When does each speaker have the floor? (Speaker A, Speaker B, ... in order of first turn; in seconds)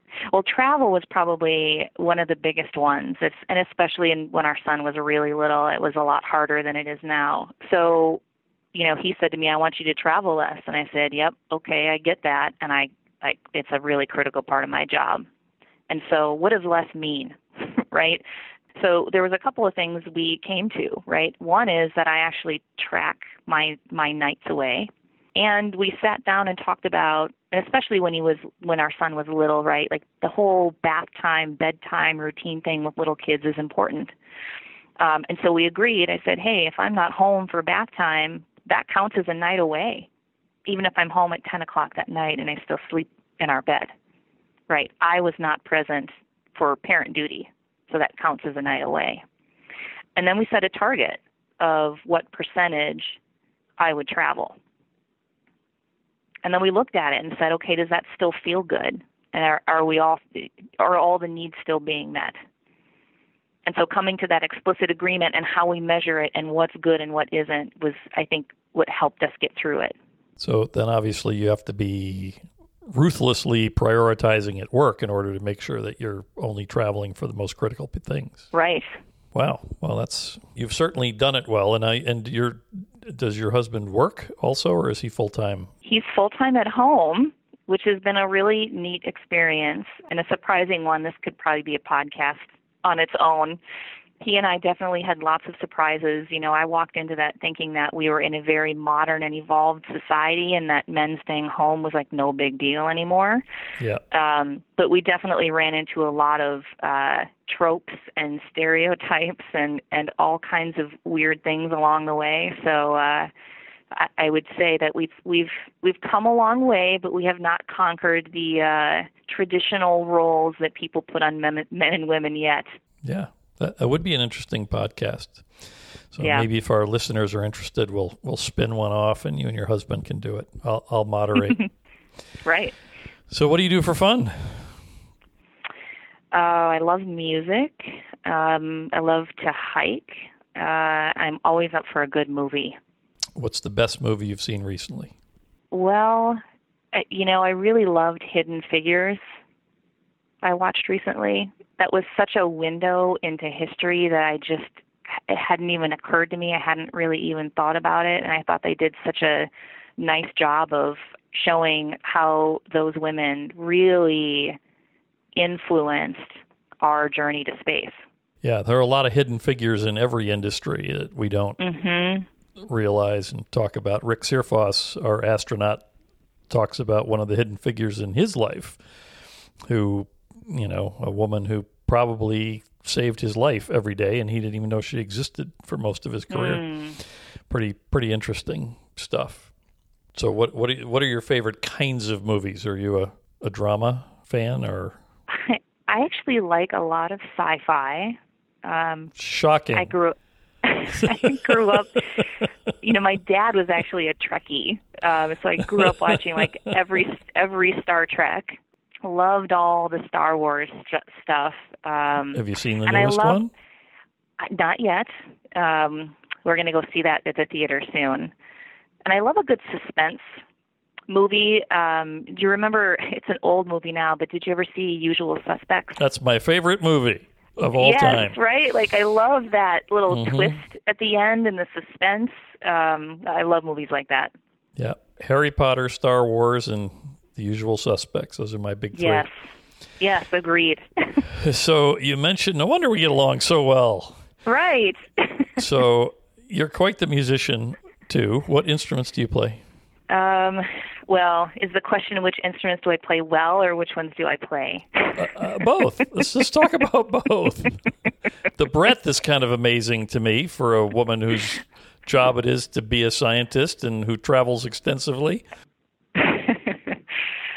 Speaker A: 0.3-8.2, 8.7-15.3, 15.9-18.2, 18.8-34.1, 35.0-40.1, 40.7-43.9, 44.7-49.2, 50.2-53.2, 53.8-54.6, 56.5-62.4, 63.7-70.0, 78.5-78.9, 85.8-93.6, 94.2-103.4, 104.1-113.3, 113.9-122.7, 126.2-126.5, 132.4-132.8, 136.3-142.8, 145.7-146.4, 146.9-149.2, 150.4-164.6, 165.4-168.0, 171.6-172.3, 186.3-187.0, 195.3-199.1, 199.7-202.3, 202.8-213.4, 214.4-218.3, 219.1-220.2, 221.1-226.0, 227.8-234.3, 238.9-239.3, 240.0-241.2, 244.5-245.5, 250.1-255.2, 266.1-267.0
Speaker B: 70.4-78.5, 79.3-85.7, 123.0-131.6, 133.3-134.8, 143.4-145.1, 168.4-171.6, 172.6-175.8, 176.5-178.8, 179.7-189.5, 190.2-195.0, 199.2-199.9, 201.1-201.3, 212.3-213.5, 226.0-228.4, 230.1-230.6, 234.8-239.3, 241.2-244.2, 245.6-249.6, 255.2-257.8, 258.5-265.4